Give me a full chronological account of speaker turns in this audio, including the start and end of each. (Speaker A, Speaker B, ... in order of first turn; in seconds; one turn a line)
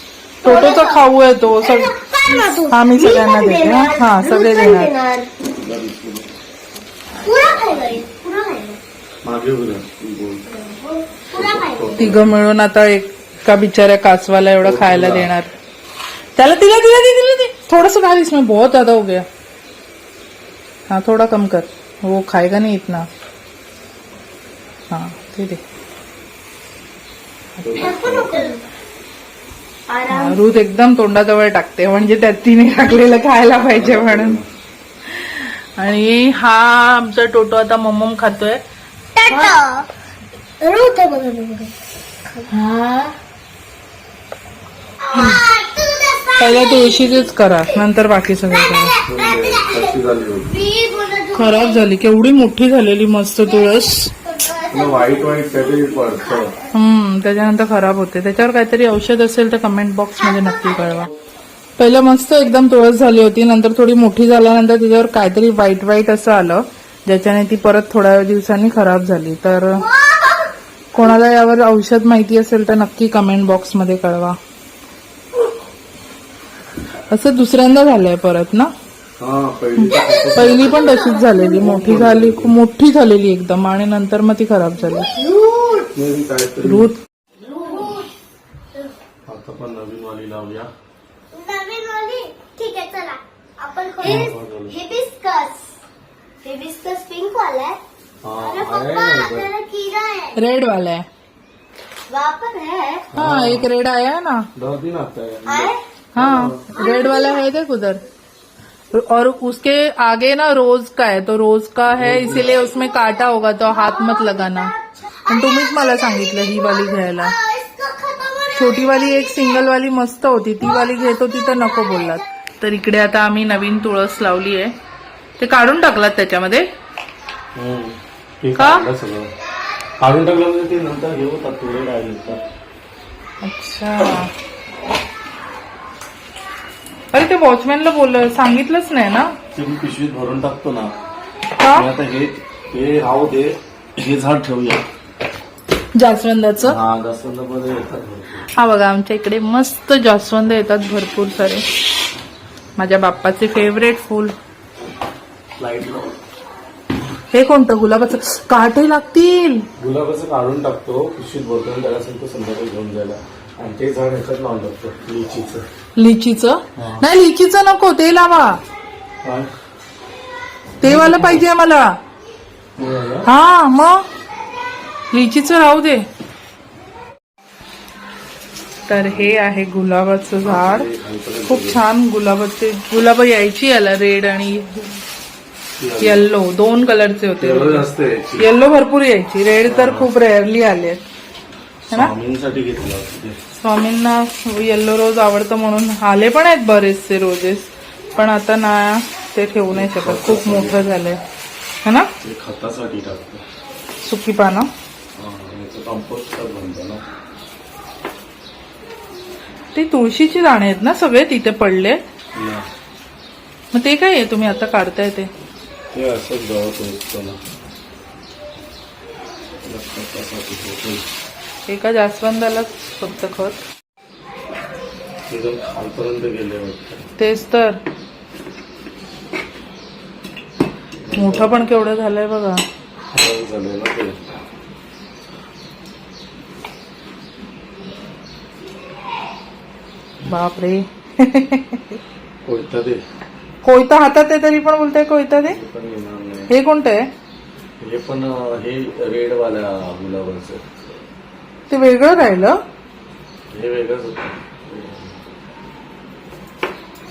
Speaker A: 0.4-1.0
Speaker B: 0.4-1.9
Speaker A: 1.6-5.3
Speaker B: 2.7-4.9
Speaker C: 5.5-6.3
Speaker A: 7.2-8.8
Speaker C: 9.2-10.4
Speaker A: 10.5-12.1
Speaker C: 11.3-12.3
Speaker B: 12.0-15.5
Speaker C: 14.6-15.3
Speaker B: 16.4-19.2
Speaker B: 20.9-23.1
Speaker B: 24.9-25.6
Speaker C: 27.6-28.5
Speaker A: 27.8-28.6
Speaker A: 29.9-30.4
Speaker B: 30.1-34.4
Speaker A: 32.8-33.2
Speaker C: 33.5-34.5
Speaker B: 35.1-38.6
Speaker A: 39.1-39.9
Speaker A: 40.6-41.7
Speaker B: 42.5-43.1
Speaker A: 45.0-47.8
Speaker B: 45.1-45.4
Speaker B: 46.4-49.0
Speaker A: 48.5-51.9
Speaker C: 49.0-50.5
Speaker B: 51.3-54.1
Speaker A: 53.4-56.7
Speaker C: 54.7-56.5
Speaker B: 56.7-61.1
Speaker A: 60.2-61.1
Speaker B: 61.8-69.8
Speaker A: 69.7-70.5
Speaker B: 70.9-74.4
Speaker B: 77.1-78.7
Speaker C: 79.2-81.0
Speaker B: 79.8-85.1
Speaker A: 79.9-81.7
Speaker C: 81.5-82.5
Speaker A: 84.8-85.9
Speaker C: 85.9-86.9
Speaker B: 86.6-87.0
Speaker A: 87.4-88.1
Speaker C: 89.2-90.7
Speaker A: 91.3-95.7
Speaker C: 94.0-94.8
Speaker A: 96.4-97.8
Speaker C: 98.2-99.5
Speaker A: 98.4-100.4
Speaker B: 100.3-101.0
Speaker A: 102.1-103.1
Speaker C: 103.1-103.7
Speaker B: 103.1-104.5
Speaker C: 104.5-106.6
Speaker A: 105.5-105.8
Speaker B: 106.1-108.0
Speaker A: 106.8-107.4
Speaker B: 108.9-114.7
Speaker C: 111.9-112.6
Speaker A: 113.6-119.6
Speaker B: 115.3-117.3
Speaker B: 118.5-124.7
Speaker A: 120.7-122.2
Speaker B: 125.4-126.6
Speaker C: 127.5-129.3
Speaker B: 128.6-128.8
Speaker C: 130.0-132.4
Speaker B: 133.4-134.3
Speaker B: 137.1-139.3
Speaker C: 139.5-140.9
Speaker B: 141.6-141.9
Speaker C: 141.7-144.8
Speaker B: 145.9-146.8
Speaker C: 146.6-148.4
Speaker B: 148.5-151.6
Speaker B: 152.8-154.3
Speaker C: 155.6-156.2
Speaker B: 157.3-159.6
Speaker C: 159.8-165.6
Speaker B: 165.9-168.6
Speaker C: 166.8-167.1
Speaker C: 169.2-169.5
Speaker B: 170.8-171.9
Speaker C: 170.8-171.4
Speaker C: 172.8-173.3
Speaker B: 173.2-174.0
Speaker B: 175.1-176.0
Speaker B: 178.9-180.9
Speaker C: 179.0-179.3
Speaker C: 180.4-181.8
Speaker B: 181.5-185.0
Speaker C: 185.8-186.2
Speaker B: 186.0-187.9
Speaker C: 187.4-188.5
Speaker B: 188.4-191.0
Speaker C: 189.7-190.1
Speaker C: 191.9-193.4
Speaker B: 193.6-201.2
Speaker C: 199.7-200.9
Speaker C: 202.2-203.4
Speaker B: 204.0-204.7
Speaker C: 205.2-207.0
Speaker B: 209.7-212.0
Speaker C: 212.3-212.7
Speaker B: 213.7-215.3
Speaker C: 215.9-217.4
Speaker C: 219.6-221.0
Speaker B: 221.7-223.6
Speaker C: 225.3-227.0
Speaker B: 227.2-227.8
Speaker C: 231.0-231.6
Speaker B: 231.1-232.6
Speaker C: 233.1-234.2
Speaker B: 240.2-242.0
Speaker C: 242.4-243.0
Speaker B: 243.6-245.6
Speaker C: 245.5-246.5
Speaker B: 246.5-247.0
Speaker C: 247.8-250.8
Speaker B: 251.7-252.6
Speaker C: 253.5-255.2